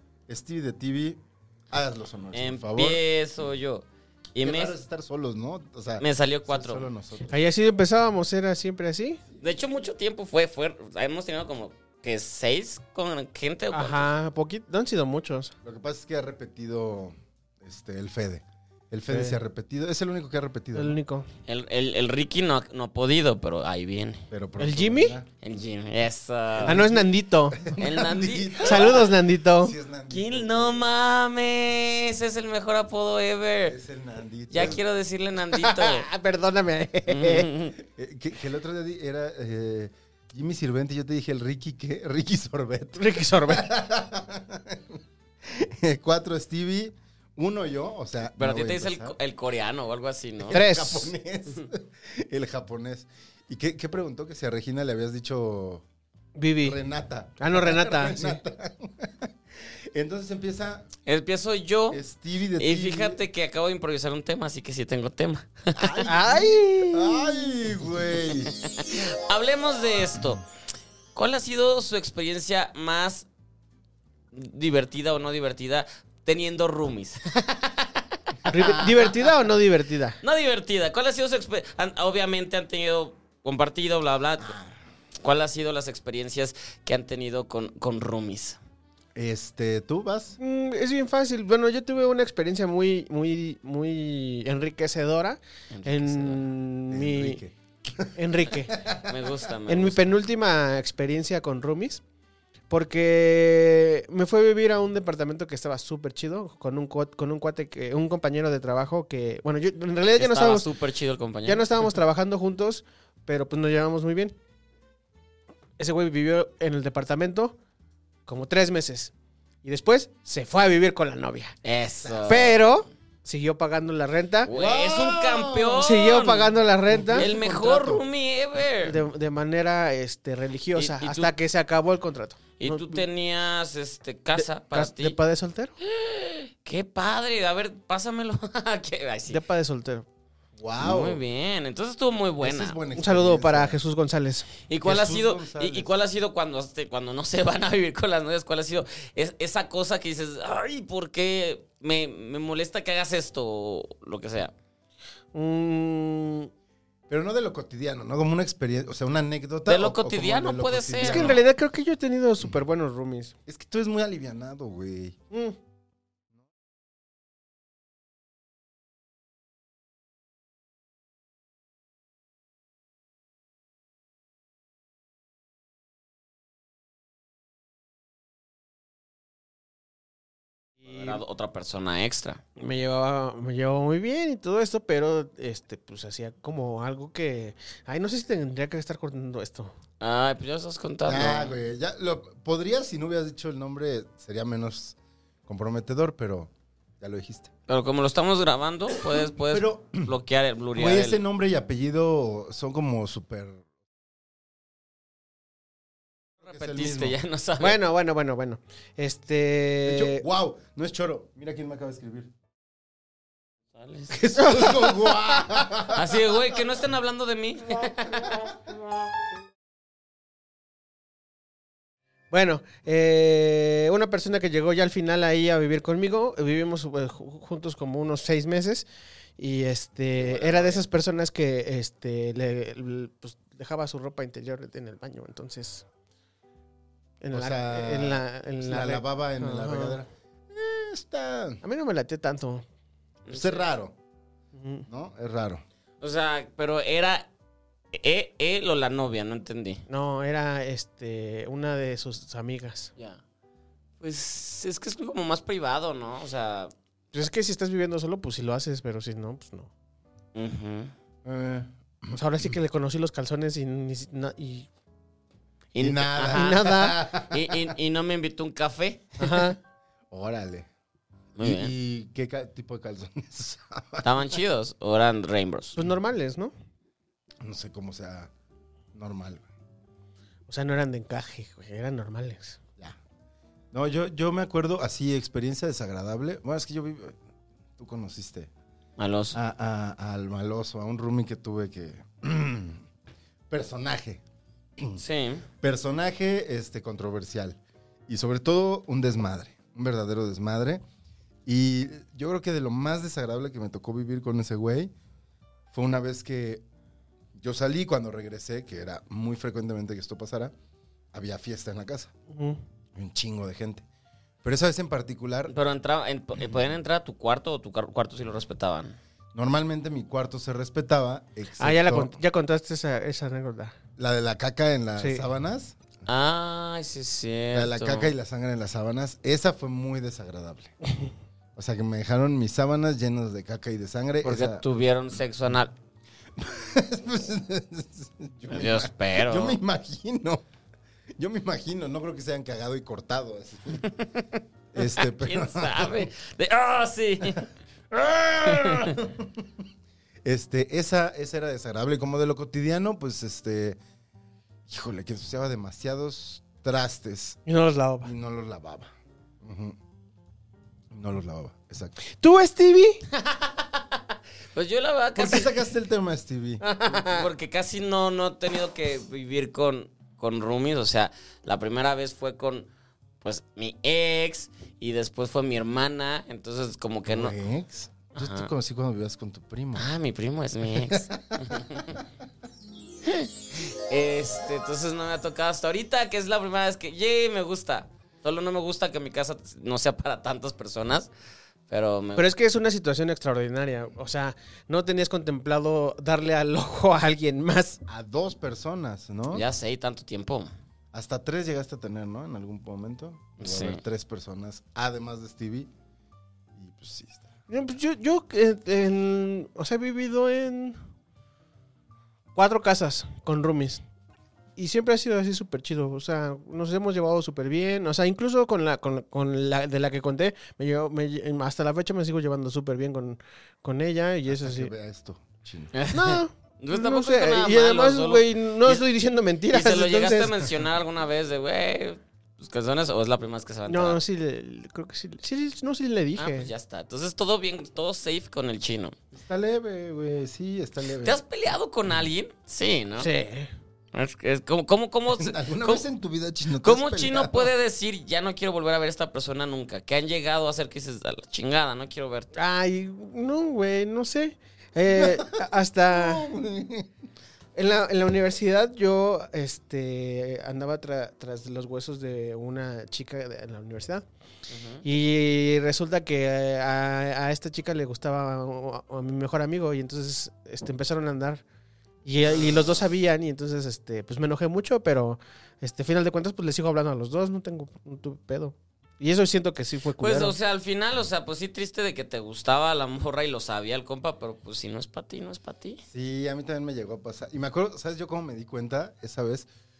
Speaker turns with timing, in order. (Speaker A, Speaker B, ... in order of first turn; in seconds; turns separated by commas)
Speaker A: 0.3-3.0, Speaker B: 2.3-4.7, Speaker A: 4.4-7.3, Speaker B: 6.0-6.9, Speaker C: 7.3-9.2, Speaker B: 9.4-14.1, Speaker C: 13.7-15.5, Speaker A: 15.6-20.9, Speaker C: 19.1-19.4, Speaker C: 20.7-21.2, Speaker B: 21.5-24.2, Speaker A: 24.3-25.3, Speaker C: 24.6-25.2, Speaker B: 25.4-26.9, Speaker A: 26.6-30.8, Speaker C: 26.6-27.6, Speaker B: 27.8-29.1, Speaker C: 28.6-29.7, Speaker B: 30.1-33.8, Speaker A: 33.7-34.8, Speaker B: 34.5-36.1, Speaker C: 35.5-37.5, Speaker B: 37.1-37.8, Speaker A: 37.8-49.1, Speaker C: 43.0-43.7, Speaker B: 48.4-50.6, Speaker A: 50.4-55.8, Speaker C: 50.5-51.1, Speaker C: 56.4-56.8, Speaker A: 56.6-60.9, Speaker C: 57.4-58.4, Speaker B: 61.0-62.0, Speaker A: 61.9-63.2, Speaker B: 62.6-66.0, Speaker A: 65.7-68.5, Speaker C: 66.0-67.4, Speaker B: 68.5-70.4, Speaker B: 71.1-73.3, Speaker B: 74.3-78.3, Speaker A: 78.5-79.0, Speaker C: 78.5-80.2, Speaker B: 80.2-84.5, Speaker A: 84.4-84.7, Speaker B: 85.2-88.6, Speaker A: 89.1-90.4, Speaker C: 90.4-97.4, Speaker B: 95.7-96.5, Speaker A: 96.9-98.2, Speaker C: 98.1-98.8, Speaker A: 98.7-99.2, Speaker B: 99.0-100.1, Speaker C: 99.7-102.0, Speaker C: 102.7-110.7, Speaker B: 110.2-111.7, Speaker C: 111.4-114.3, Speaker C: 115.8-117.5, Speaker C: 118.3-119.1, Speaker C: 119.6-121.5, Speaker B: 121.6-122.7, Speaker A: 122.0-122.4, Speaker C: 122.3-124.5, Speaker B: 124.5-126.6, Speaker A: 124.5-125.8, Speaker C: 125.8-127.3, Speaker A: 126.9-128.1, Speaker B: 127.1-129.0, Speaker C: 128.8-133.0, Speaker B: 130.7-131.3, Speaker B: 132.6-135.2, Speaker C: 134.3-135.8, Speaker B: 135.8-139.4, Speaker C: 139.3-140.1, Speaker A: 140.6-141.2, Speaker B: 140.8-142.8, Speaker A: 142.4-143.8, Speaker C: 142.9-144.5, Speaker B: 144.7-154.5, Speaker A: 144.8-145.9, Speaker C: 155.3-156.5, Speaker A: 157.1-161.4, Speaker B: 159.7-161.4, Speaker C: 161.0-163.3, Speaker A: 163.5-165.2, Speaker C: 165.3-165.6, Speaker C: 180.8-181.2, Speaker B: 180.8-182.4, Speaker C: 182.6-189.7, Speaker B: 190.0-191.5, Speaker A: 191.1-197.5, Speaker B: 197.7-201.2, Speaker A: 199.1-200.1, Speaker A: 200.7-203.6, Speaker A: 206.4-207.2, Speaker B: 206.4-207.8, Speaker C: 207.6-210.2, Speaker A: 209.8-212.3, Speaker B: 213.7-214.2, Speaker A: 214.1-216.6, Speaker C: 214.3-215.2, Speaker B: 215.9-218.3, Speaker C: 222.3-228.8, Speaker C: 229.4-235.8, Speaker A: 230.3-230.8, Speaker C: 237.2-240.0, Speaker A: 237.3-241.6, Speaker C: 241.6-242.6, Speaker B: 243.2-243.7, Speaker A: 243.3-243.9, Speaker C: 244.5-244.8, Speaker A: 244.9-245.6, Speaker B: 246.0-247.3, Speaker B: 247.9-249.8, Speaker C: 249.9-252.9, Speaker B: 254.0-256.7, Speaker C: 257.1-259.7, Speaker B: 260.3-260.9, Speaker A: 261.2-262.5, Speaker C: 262.1-264.7, Speaker B: 265.7-269.5, Speaker A: 265.8-267.7, Speaker C: 266.2-267.0, Speaker C: 269.2-269.6, Speaker A: 270.1-270.7, Speaker B: 271.4-271.7, Speaker A: 271.4-274.3, Speaker B: 274.0-275.8, Speaker C: 275.8-276.5, Speaker A: 277.4-278.3, Speaker A: 278.9-279.4, Speaker C: 280.5-282.6, Speaker A: 283.7-287.2, Speaker A: 287.8-288.5, Speaker B: 289.0-289.4, Speaker A: 289.3-292.9, Speaker A: 293.5-294.2, Speaker B: 295.0-295.4, Speaker A: 295.6-300.8, Speaker A: 301.4-304.9, Speaker A: 305.7-306.6, Speaker A: 307.4-310.5, Speaker A: 311.1-312.1, Speaker C: 312.3-312.6, Speaker A: 312.9-313.8, Speaker A: 314.4-315.5, Speaker B: 315.5-318.9, Speaker A: 319.3-322.2, Speaker C: 321.6-323.7, Speaker A: 324.0-325.8, Speaker C: 325.0-325.2, Speaker B: 326.1-328.1, Speaker A: 327.5-330.7, Speaker A: 331.6-334.6, Speaker B: 334.2-335.7, Speaker A: 336.4-340.4, Speaker B: 338.5-339.6, Speaker A: 341.2-343.9, Speaker B: 343.9-347.4, Speaker A: 344.7-346.1, Speaker A: 347.9-349.5, Speaker B: 348.4-348.9, Speaker A: 350.2-353.8, Speaker A: 354.7-357.4, Speaker C: 357.4-358.1, Speaker A: 358.0-358.9, Speaker A: 359.4-359.8, Speaker A: 360.9-362.0, Speaker C: 362.0-363.0, Speaker B: 363.1-364.0, Speaker B: 364.5-365.6, Speaker A: 365.1-366.6, Speaker C: 366.6-367.2, Speaker B: 367.0-372.7, Speaker B: 373.2-377.3, Speaker A: 377.1-379.9, Speaker B: 378.1-378.5, Speaker B: 379.8-382.0, Speaker A: 380.7-382.0, Speaker B: 383.0-391.1, Speaker B: 391.7-392.3, Speaker C: 392.1-397.8, Speaker A: 397.9-399.4, Speaker B: 399.3-400.5, Speaker A: 400.9-405.7, Speaker B: 403.4-403.8, Speaker A: 406.6-407.3, Speaker C: 407.5-410.8, Speaker C: 412.3-413.8, Speaker C: 414.6-424.7, Speaker A: 424.3-425.8, Speaker B: 425.7-428.8, Speaker C: 425.9-430.4, Speaker B: 429.5-434.0, Speaker C: 433.7-436.5, Speaker B: 436.2-438.9, Speaker A: 439.1-441.2, Speaker B: 441.0-443.1, Speaker C: 443.0-443.5, Speaker B: 443.9-445.8, Speaker A: 445.1-447.5, Speaker B: 446.6-452.3, Speaker C: 452.3-456.3, Speaker A: 454.9-456.9, Speaker C: 457.5-464.0, Speaker B: 464.5-464.8, Speaker C: 464.8-471.4, Speaker C: 472.0-480.3, Speaker B: 472.2-472.8, Speaker B: 480.0-485.8, Speaker A: 485.9-489.5